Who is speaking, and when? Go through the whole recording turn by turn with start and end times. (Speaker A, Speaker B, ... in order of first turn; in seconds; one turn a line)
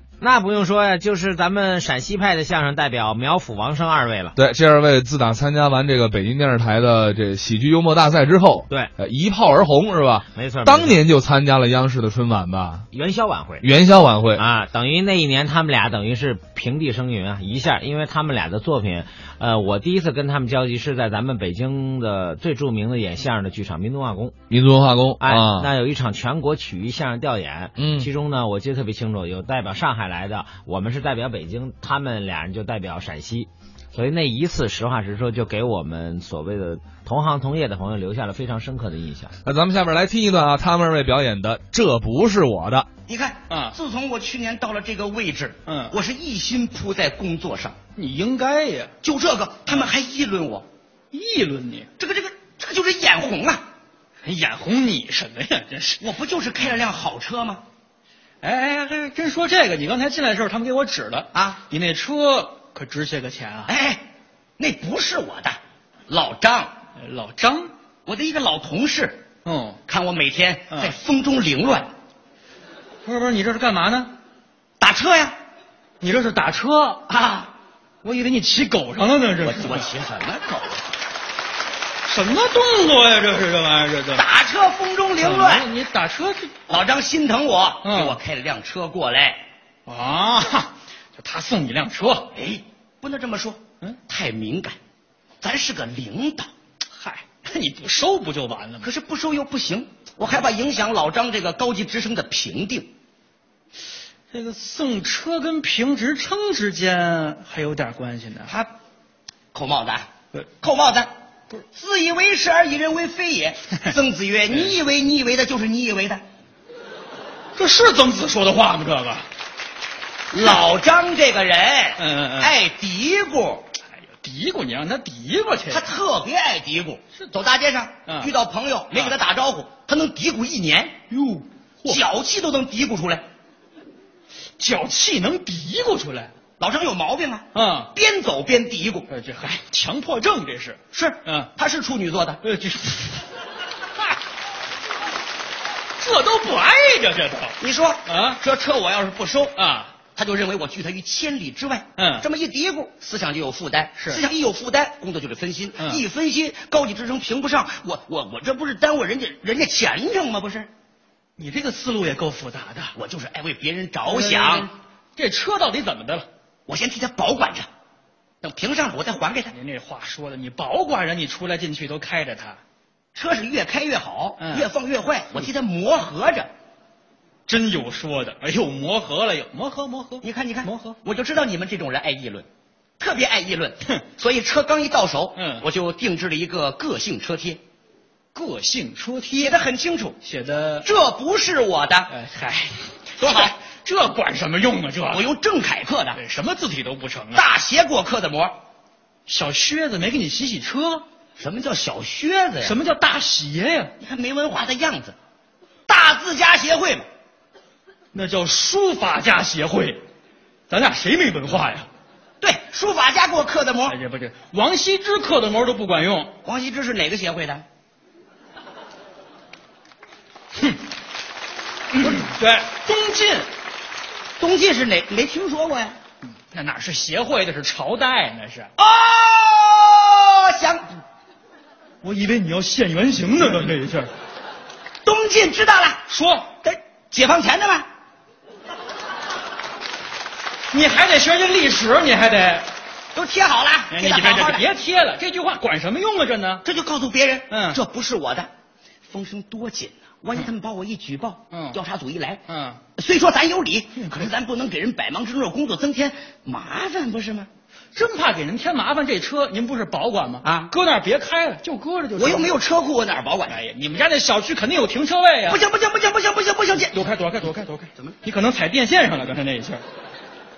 Speaker A: 0.2-4.3
Speaker B: 4.3-12.9
Speaker A: 10.3-11.0
Speaker A: 12.9-13.7
Speaker B: 13.6-14.4
Speaker A: 14.3-24.4
Speaker B: 24.5-25.7
Speaker A: 25.2-39.3
Speaker B: 27.8-28.1
Speaker B: 39.4-42.9
Speaker C: 43.1-47.8
Speaker D: 43.5-43.8
Speaker D: 45.6-45.9
Speaker D: 48.0-48.9
Speaker C: 49.0-50.6
Speaker D: 51.1-51.9
Speaker C: 52.0-53.6
Speaker D: 54.2-56.0
Speaker C: 56.0-57.6
Speaker D: 58.4-63.7
Speaker C: 61.3-61.6
Speaker C: 63.6-64.0
Speaker C: 64.6-65.6
Speaker C: 66.1-66.7
Speaker D: 67.0-67.7
Speaker C: 68.0-69.2
Speaker D: 69.4-69.8
Speaker C: 69.9-71.9
Speaker D: 70.7-70.9
Speaker D: 73.0-74.1
Speaker C: 74.8-75.4
Speaker D: 76.0-77.0
Speaker C: 77.1-77.5
Speaker D: 78.0-79.9
Speaker C: 79.4-80.8
Speaker D: 82.0-84.2
Speaker C: 84.1-85.7
Speaker D: 85.2-86.5
Speaker C: 86.7-89.4
Speaker D: 87.8-88.2
Speaker D: 89.8-92.3
Speaker C: 92.3-94.8
Speaker C: 95.4-96.5
Speaker D: 96.9-98.9
Speaker C: 98.8-102.9
Speaker D: 104.3-108.6
Speaker C: 109.5-110.0
Speaker C: 110.6-111.1
Speaker C: 111.7-116.2
Speaker D: 114.5-114.8
Speaker D: 117.5-119.3
Speaker C: 120.3-123.7
Speaker D: 122.0-122.5
Speaker D: 123.9-125.9
Speaker C: 125.7-131.0
Speaker D: 128.0-128.3
Speaker D: 131.1-132.0
Speaker C: 131.8-133.2
Speaker D: 134.6-136.3
Speaker C: 136.6-139.1
Speaker D: 137.5-137.9
Speaker D: 139.1-141.5
Speaker C: 140.9-142.4
Speaker D: 142.4-143.2
Speaker D: 146.0-148.4
Speaker C: 147.6-149.6
Speaker D: 149.5-149.9
Speaker C: 150.1-160.7
Speaker D: 152.0-152.2
Speaker D: 153.9-154.2
Speaker D: 161.4-162.9
Speaker C: 162.9-164.7
Speaker D: 164.0-166.3
Speaker C: 166.7-167.7
Speaker C: 168.4-169.5
Speaker D: 169.5-172.6
Speaker C: 173.1-176.5
Speaker D: 174.4-174.7
Speaker D: 177.4-181.0
Speaker C: 180.2-182.4
Speaker C: 183.0-187.6
Speaker D: 185.3-185.7
Speaker D: 188.3-189.6
Speaker C: 189.3-190.2
Speaker D: 190.2-190.9
Speaker C: 190.8-192.1
Speaker D: 192.1-195.3
Speaker C: 193.2-193.5
Speaker C: 195.1-196.2
Speaker D: 196.1-197.4
Speaker C: 197.3-198.5
Speaker D: 199.2-201.0
Speaker C: 201.4-202.8
Speaker D: 202.6-203.9
Speaker C: 204.0-205.1
Speaker C: 205.9-207.1
Speaker D: 208.1-210.0
Speaker D: 210.7-211.9
Speaker C: 212.4-214.0
Speaker D: 213.8-216.3
Speaker C: 216.4-217.6
Speaker D: 221.9-223.5
Speaker C: 224.4-225.9
Speaker D: 226.3-228.7
Speaker C: 228.8-230.8
Speaker D: 232.0-234.1
Speaker C: 235.0-236.0
Speaker D: 236.1-236.5
Speaker C: 236.6-237.8
Speaker D: 240.7-242.7
Speaker C: 243.1-244.7
Speaker D: 243.9-246.6
Speaker C: 246.6-248.5
Speaker D: 247.5-247.8
Speaker C: 249.1-252.4
Speaker D: 251.5-251.8
Speaker D: 252.5-252.8
Speaker C: 253.0-257.5
Speaker D: 257.9-262.5
Speaker C: 260.4-260.7
Speaker C: 262.1-263.6
Speaker D: 263.5-265.6
Speaker C: 265.5-267.1
Speaker D: 266.9-269.8